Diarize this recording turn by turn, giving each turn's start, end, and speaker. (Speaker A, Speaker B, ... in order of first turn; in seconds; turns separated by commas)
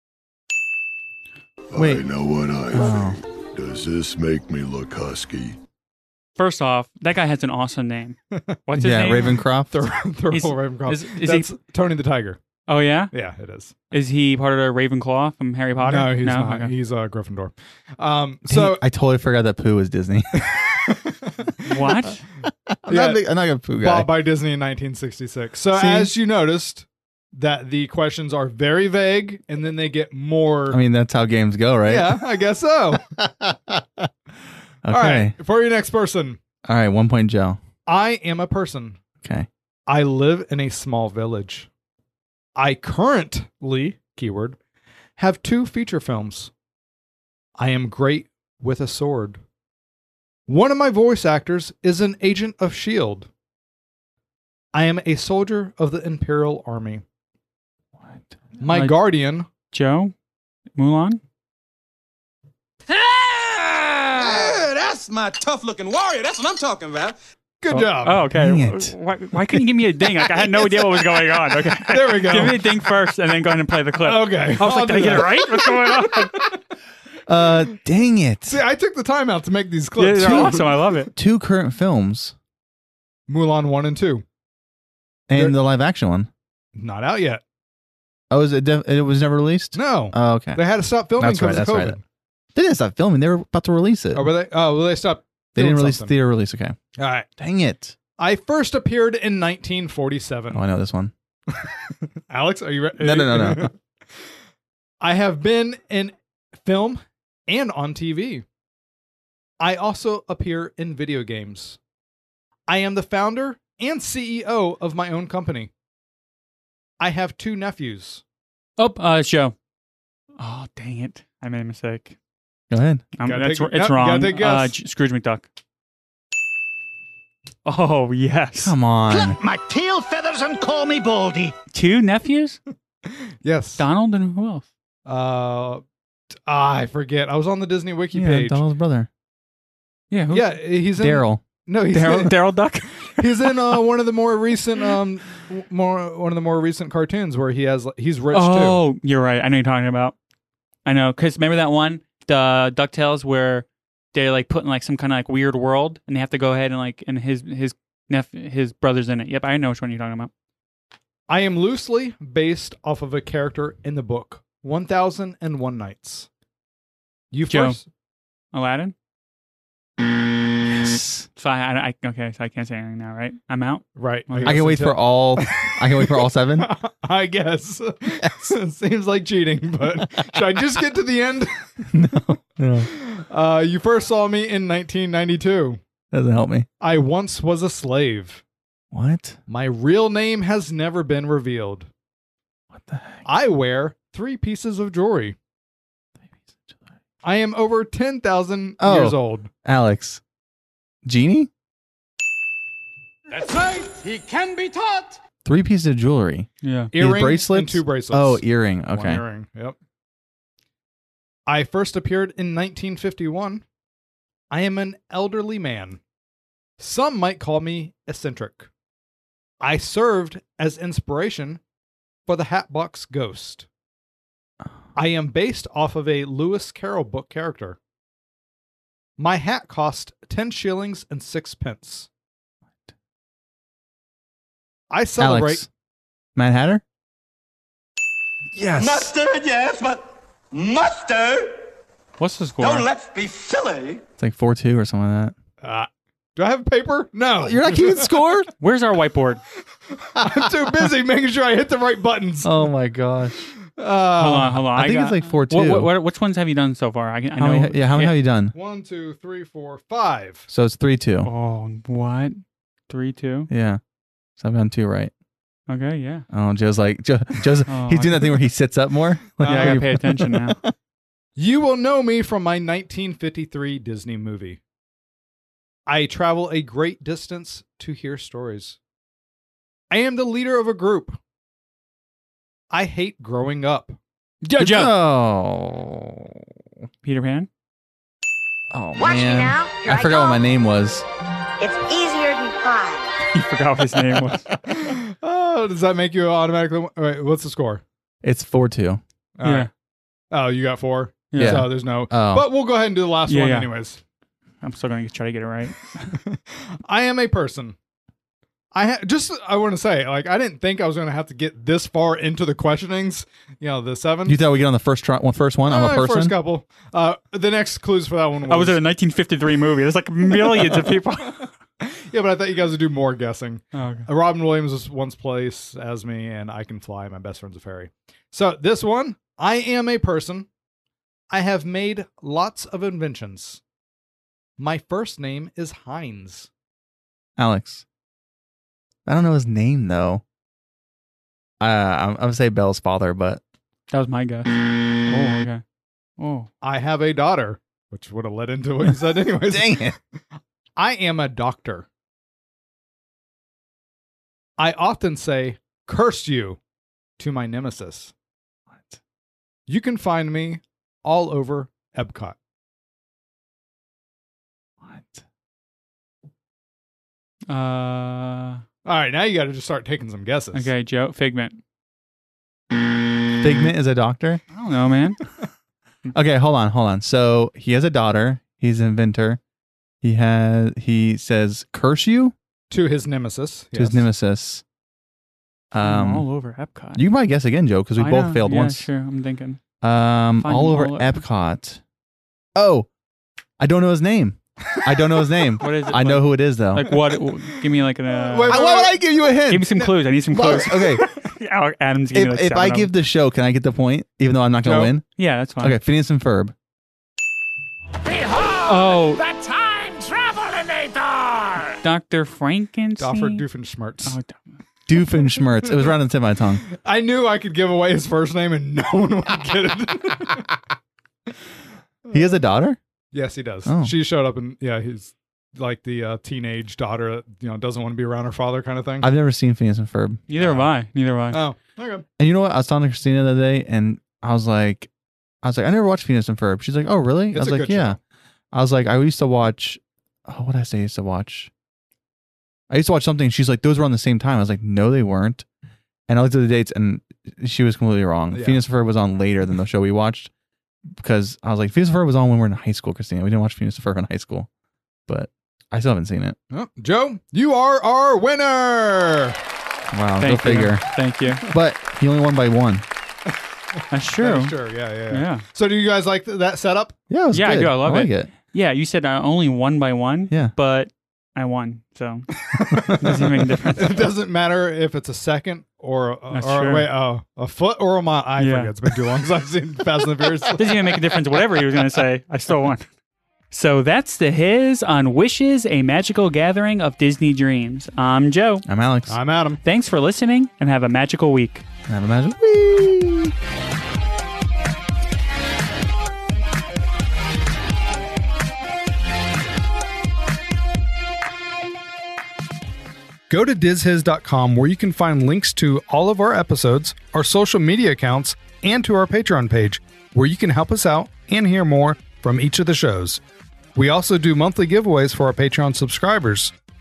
Speaker A: 1.7-5.6, Speaker B: 1.8-2.0, Speaker B: 2.7-3.2, Speaker C: 6.4-9.4, Speaker D: 8.3-8.6, Speaker B: 8.8-9.8, Speaker D: 9.7-12.4, Speaker C: 10.3-11.5, Speaker C: 12.7-13.1, Speaker D: 13.1-13.8, Speaker C: 13.9-16.7, Speaker D: 15.8-18.8, Speaker B: 18.5-20.6, Speaker D: 20.4-22.0, Speaker C: 21.7-22.2, Speaker B: 22.7-24.1, Speaker D: 22.9-23.2, Speaker D: 23.8-30.8, Speaker B: 25.7-26.1, Speaker B: 30.7-32.2, Speaker D: 31.9-33.0, Speaker B: 33.2-34.1, Speaker B: 34.8-35.4, Speaker D: 34.9-36.4, Speaker B: 36.6-37.6, Speaker D: 37.9-39.0, Speaker B: 39.2-39.5, Speaker D: 39.9-41.7, Speaker D: 42.6-44.6, Speaker D: 45.2-46.5, Speaker D: 47.6-49.4, Speaker D: 50.5-53.3, Speaker D: 54.7-57.0, Speaker D: 58.6-59.5, Speaker C: 58.7-59.0, Speaker C: 59.7-60.1, Speaker C: 60.8-61.2, Speaker E: 62.9-67.2, Speaker D: 64.2-64.6, Speaker D: 67.6-68.3, Speaker C: 67.7-76.5, Speaker B: 68.3-68.9, Speaker D: 70.5-71.0, Speaker D: 71.8-72.9, Speaker D: 74.0-76.6, Speaker B: 77.3-78.6, Speaker D: 78.5-80.7, Speaker C: 80.0-81.1, Speaker B: 80.2-82.3, Speaker D: 83.3-84.2, Speaker B: 85.3-86.3, Speaker D: 86.8-87.4, Speaker B: 88.3-90.6, Speaker D: 89.8-92.0, Speaker B: 91.2-92.0, Speaker B: 92.5-94.3, Speaker D: 94.2-96.2, Speaker B: 95.6-96.8, Speaker D: 97.0-97.3, Speaker B: 97.4-98.0, Speaker D: 98.2-100.6, Speaker B: 100.5-101.1, Speaker D: 102.3-103.8, Speaker B: 103.0-103.7, Speaker D: 105.0-108.5, Speaker D: 109.6-111.8, Speaker D: 112.7-115.7, Speaker D: 117.0-118.2, Speaker C: 118.8-119.5, Speaker C: 120.4-122.2, Speaker B: 122.7-123.0, Speaker C: 123.2-125.5, Speaker D: 123.2-124.8, Speaker C: 127.7-128.7, Speaker B: 128.6-129.4, Speaker C: 131.7-132.6, Speaker D: 133.4-133.8, Speaker C: 133.8-134.7, Speaker D: 135.1-135.8, Speaker D: 136.5-138.6, Speaker B: 138.1-139.1, Speaker C: 140.1-140.6, Speaker D: 140.3-142.3, Speaker B: 141.0-141.4, Speaker C: 141.9-143.6, Speaker D: 143.1-148.8, Speaker C: 148.3-150.2, Speaker C: 150.9-160.3, Speaker D: 161.3-166.3, Speaker D: 167.3-167.9, Speaker C: 167.5-167.8, Speaker C: 168.5-168.9, Speaker B: 170.7-171.3, Speaker C: 171.4-174.6, Speaker D: 174.0-181.9, Speaker B: 174.4-176.7, Speaker B: 178.2-178.5, Speaker B: 181.9-182.9, Speaker D: 182.9-185.8, Speaker B: 186.1-186.7, Speaker D: 186.8-188.4, Speaker B: 188.9-189.4, Speaker D: 189.5-191.9, Speaker B: 192.7-193.2, Speaker D: 193.3-195.4, Speaker D: 197.2-199.5, Speaker B: 198.8-200.2, Speaker B: 201.1-201.5, Speaker E: 203.3-205.2, Speaker B: 205.4-209.2, Speaker C: 206.6-206.9, Speaker D: 206.9-209.8, Speaker D: 211.5-213.6, Speaker D: 214.5-216.0, Speaker D: 216.8-218.7, Speaker D: 219.6-221.6, Speaker D: 222.3-223.7, Speaker D: 224.9-227.8, Speaker D: 229.2-232.1, Speaker D: 234.9-235.6, Speaker B: 235.2-235.7, Speaker B: 236.4-236.8, Speaker B: 238.5-239.1, Speaker E: 238.8-241.6, Speaker C: 242.2-242.9, Speaker E: 242.6-244.0, Speaker B: 244.2-245.3, Speaker D: 245.6-248.2, Speaker B: 247.4-248.5, Speaker C: 248.6-249.4, Speaker D: 249.9-252.6, Speaker B: 252.4-253.5, Speaker D: 253.7-254.6, Speaker C: 254.2-258.1, Speaker B: 254.7-255.9, Speaker B: 257.4-258.5, Speaker D: 258.5-260.5, Speaker B: 260.5-261.3, Speaker C: 261.2-263.5, Speaker B: 263.5-263.8, Speaker B: 264.4-265.1, Speaker C: 265.7-266.2, Speaker B: 266.3-270.7, Speaker C: 267.7-268.3, Speaker D: 269.4-269.8, Speaker C: 269.4-270.6, Speaker D: 271.4-274.6, Speaker D: 275.9-278.8, Speaker D: 279.9-281.2, Speaker D: 282.7-284.0, Speaker C: 284.4-284.9, Speaker B: 284.6-286.4, Speaker C: 287.0-287.5, Speaker B: 288.7-291.1, Speaker F: 289.0-290.4, Speaker F: 291.6-293.2, Speaker C: 293.3-294.5, Speaker D: 294.7-297.8, Speaker B: 298.2-299.0, Speaker D: 299.4-299.7, Speaker C: 299.4-299.7, Speaker D: 300.3-304.0, Speaker C: 301.3-301.7, Speaker B: 301.4-302.5, Speaker C: 303.3-303.7, Speaker C: 304.6-306.1, Speaker D: 306.3-307.8, Speaker D: 308.7-314.4, Speaker B: 314.3-316.4, Speaker D: 315.7-318.8, Speaker C: 318.5-321.4, Speaker D: 320.4-320.9, Speaker D: 321.8-330.5, Speaker C: 323.7-324.1, Speaker D: 331.3-333.6, Speaker D: 334.6-336.5, Speaker B: 337.4-337.9, Speaker B: 339.1-340.2, Speaker B: 341.6-343.4, Speaker C: 343.9-345.6, Speaker C: 346.2-346.5, Speaker D: 346.6-349.9, Speaker B: 349.5-350.0, Speaker D: 350.8-351.9, Speaker D: 354.6-356.6, Speaker D: 357.2-358.1, Speaker B: 358.7-359.0, Speaker D: 359.7-362.4, Speaker B: 364.8-365.2, Speaker C: 367.5-368.6, Speaker D: 368.9-370.7, Speaker C: 370.5-371.6, Speaker B: 373.4-374.4, Speaker C: 374.5-375.2, Speaker B: 376.1-379.4, Speaker B: 380.0-382.4, Speaker D: 382.7-384.1, Speaker B: 383.8-384.6, Speaker B: 385.7-386.3, Speaker C: 385.8-387.0, Speaker B: 386.9-388.9, Speaker C: 388.0-389.6, Speaker B: 389.8-391.8, Speaker C: 390.4-391.2, Speaker B: 392.6-392.9, Speaker B: 393.6-396.9, Speaker C: 395.6-398.6, Speaker D: 398.2-399.0, Speaker B: 398.5-401.1, Speaker C: 399.5-402.9, Speaker B: 402.1-405.1, Speaker D: 404.7-404.9, Speaker C: 405.2-405.8, Speaker B: 405.6-406.5, Speaker E: 408.0-411.8, Speaker C: 408.6-409.2, Speaker C: 411.8-413.4, Speaker D: 413.0-414.2, Speaker C: 414.0-414.4, Speaker B: 414.9-416.6, Speaker D: 416.7-420.5, Speaker B: 422.1-422.8, Speaker D: 423.1-429.1, Speaker B: 423.7-423.9, Speaker B: 429.0-430.2, Speaker C: 430.3-431.4, Speaker D: 431.3-432.1, Speaker B: 432.2-434.9, Speaker B: 435.4-438.0, Speaker D: 437.3-438.0, Speaker B: 438.5-441.5, Speaker B: 442.7-445.5, Speaker B: 446.1-450.3, Speaker D: 448.3-448.6, Speaker B: 451.0-454.5, Speaker B: 455.1-456.4, Speaker D: 456.5-459.4, Speaker B: 459.9-462.9, Speaker C: 460.2-461.4, Speaker C: 463.9-464.6, Speaker D: 464.2-467.0, Speaker C: 465.1-465.4, Speaker B: 467.1-468.3, Speaker C: 467.3-472.3, Speaker D: 472.5-481.0, Speaker C: 473.0-474.0, Speaker C: 476.3-476.9, Speaker C: 478.4-478.7, Speaker C: 480.6-482.9, Speaker C: 483.5-488.6, Speaker B: 488.7-489.2, Speaker D: 489.1-489.6, Speaker C: 489.6-491.6, Speaker B: 491.9-493.3, Speaker D: 503.3-513.2, Speaker D: 513.8-516.5